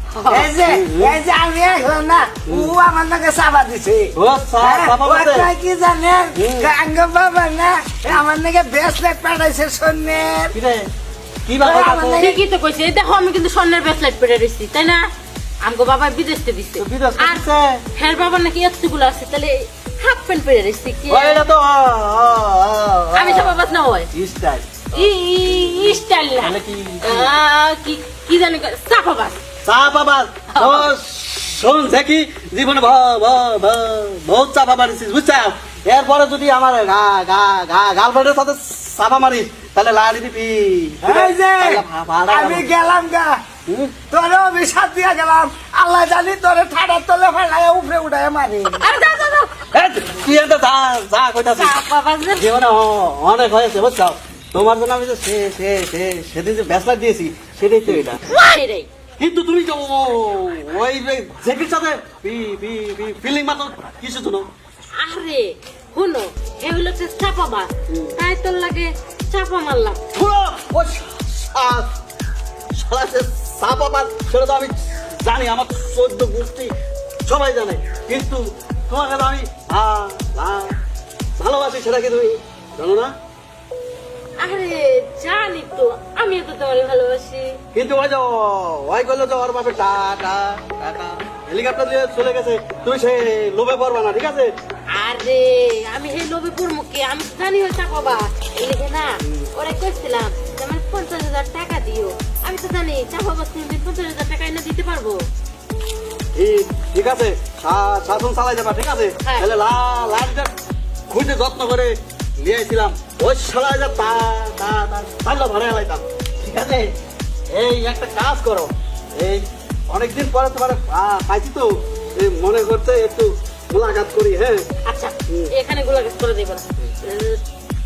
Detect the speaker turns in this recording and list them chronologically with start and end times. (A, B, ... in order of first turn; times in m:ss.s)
0:00.1-0:00.5 A
0:00.3-0:10.6 B
0:00.6-0:01.2 C
0:02.4-0:02.7 C
0:04.1-0:05.5 C
0:06.4-0:06.7 C
0:10.5-0:10.9 C
0:11.5-0:12.4 C
0:11.6-0:12.4 B
0:12.0-0:15.1 A
0:15.6-0:21.4 A
0:16.8-0:17.8 C
0:21.1-0:27.3 C
0:23.1-0:24.1 A
0:24.9-0:29.4 A
0:29.6-0:42.7 C
0:30.5-0:30.9 A
0:41.0-0:43.4 B
0:43.7-0:43.9 C
0:44.1-0:48.9 B
0:48.8-0:49.5 A
0:49.7-0:51.8 C
0:51.6-0:52.5 A
0:52.4-0:58.2 C
0:58.3-0:58.9 A
0:59.2-1:04.5 C
1:05.0-1:10.0 A
1:07.9-1:08.2 C
1:10.1-1:11.9 C
1:12.7-1:16.7 C
1:17.2-1:20.8 C
1:21.4-1:23.1 C
1:24.4-1:27.6 A
1:27.7-1:34.5 C
1:34.9-1:45.3 A
1:39.2-1:39.5 C
1:46.4-1:50.5 C
1:49.2-1:49.5 A
1:51.1-1:56.9 C
1:57.5-2:04.6 C
2:04.8-2:07.4 A
2:05.3-2:05.5 C